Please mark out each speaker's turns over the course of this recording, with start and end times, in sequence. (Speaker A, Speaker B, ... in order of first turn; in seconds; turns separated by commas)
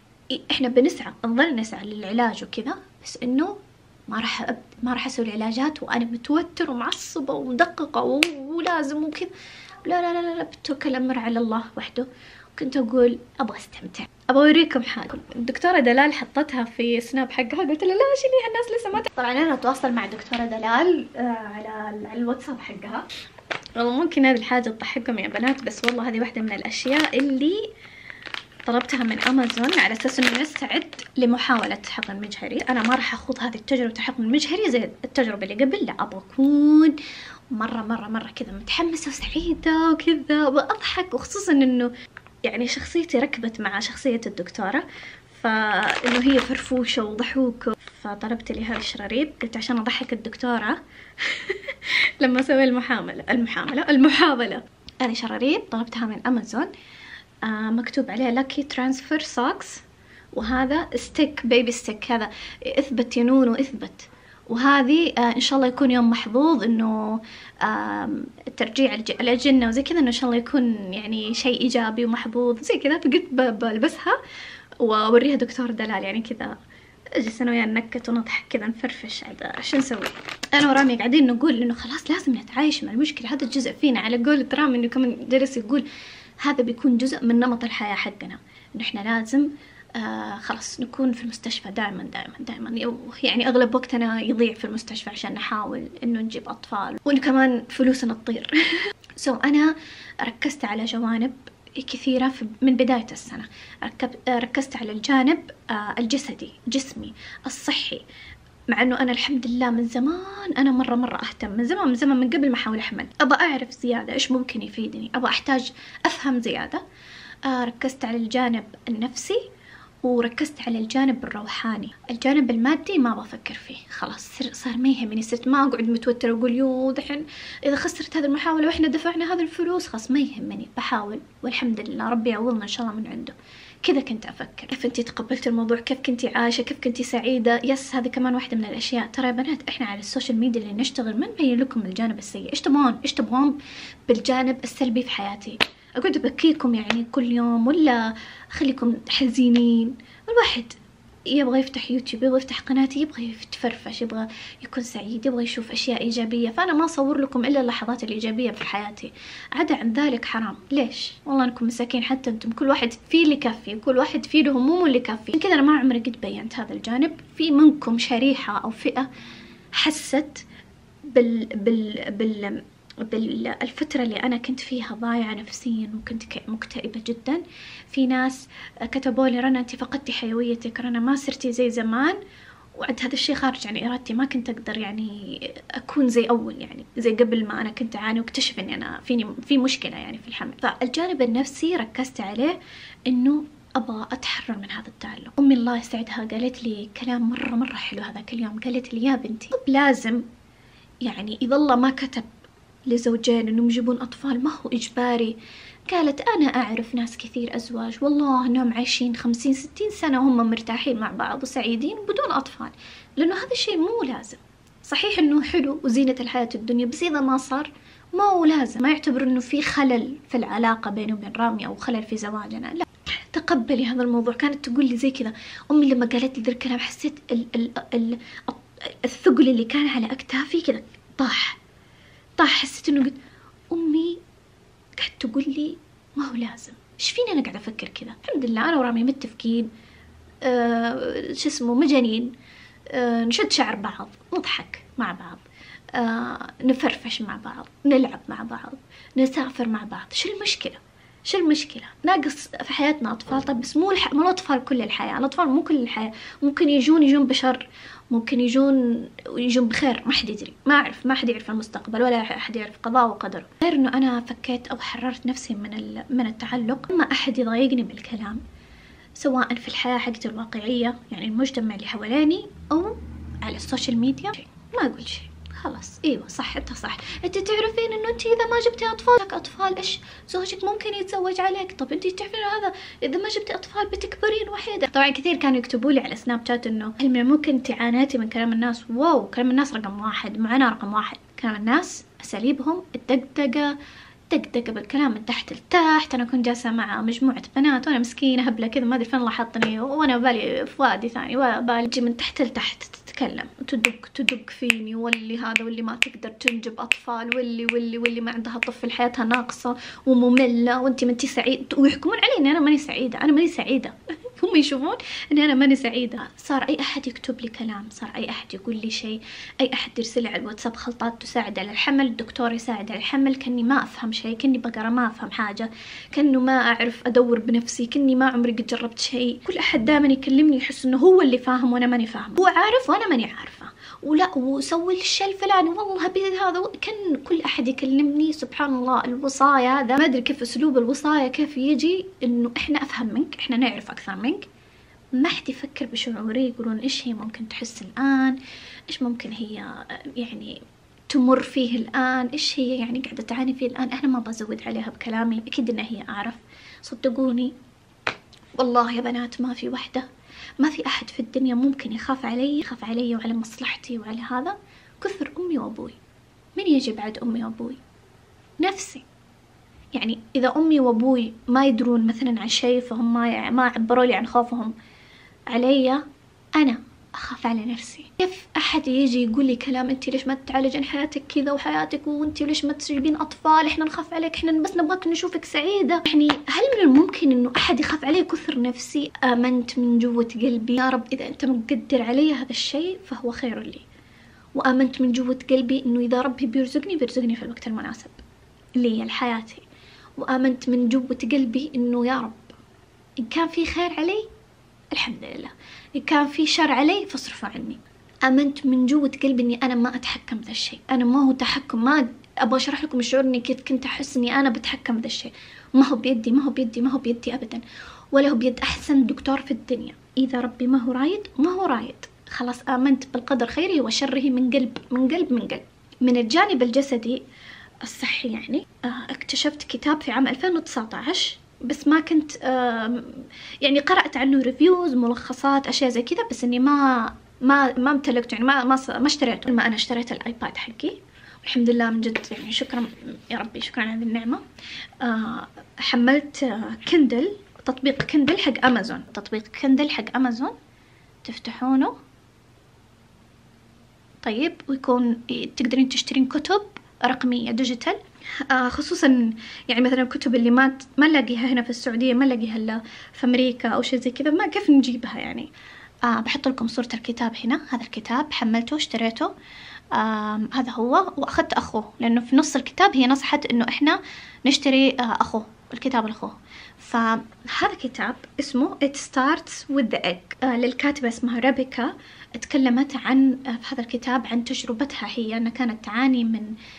Speaker A: 0.3-3.6, Speaker A: 4.1-9.3, Speaker A: 9.8-23.1, Speaker A: 23.8-27.6, Speaker A: 28.7-37.0, Speaker A: 37.5-41.9, Speaker A: 42.4-56.7, Speaker A: 57.4-74.2, Speaker A: 74.8-76.5, Speaker A: 77.2-85.8, Speaker A: 86.4-98.6, Speaker A: 99.2-108.0, Speaker A: 108.7-116.8, Speaker A: 117.5-119.4, Speaker A: 120.0-143.6, Speaker A: 144.1-150.8, Speaker A: 151.3-169.1, Speaker A: 169.8-170.4, Speaker A: 171.0-182.2, Speaker A: 182.8-192.6, Speaker A: 193.1-200.2, Speaker A: 201.0-202.3, Speaker A: 202.9-205.4, Speaker A: 205.9-231.6, Speaker A: 232.4-233.2, Speaker A: 233.7-234.2, Speaker A: 235.0-239.7, Speaker A: 240.4-242.3, Speaker A: 242.9-245.4, Speaker A: 245.9-268.4, Speaker A: 269.2-293.8, Speaker A: 294.3-344.5, Speaker A: 345.1-348.4, Speaker A: 348.9-357.5, Speaker A: 358.6-360.1, Speaker A: 360.6-366.0, Speaker A: 366.6-367.8, Speaker A: 368.6-369.1, Speaker A: 369.9-374.7, Speaker A: 375.5-376.0, Speaker A: 376.6-393.9, Speaker A: 394.5-398.2, Speaker A: 398.8-399.6, Speaker A: 400.2-402.5, Speaker A: 403.2-404.2, Speaker A: 404.9-427.2, Speaker A: 427.8-444.4, Speaker A: 445.0-450.6, Speaker A: 451.2-451.9, Speaker A: 454.2-465.5, Speaker A: 466.1-469.3, Speaker A: 469.9-486.5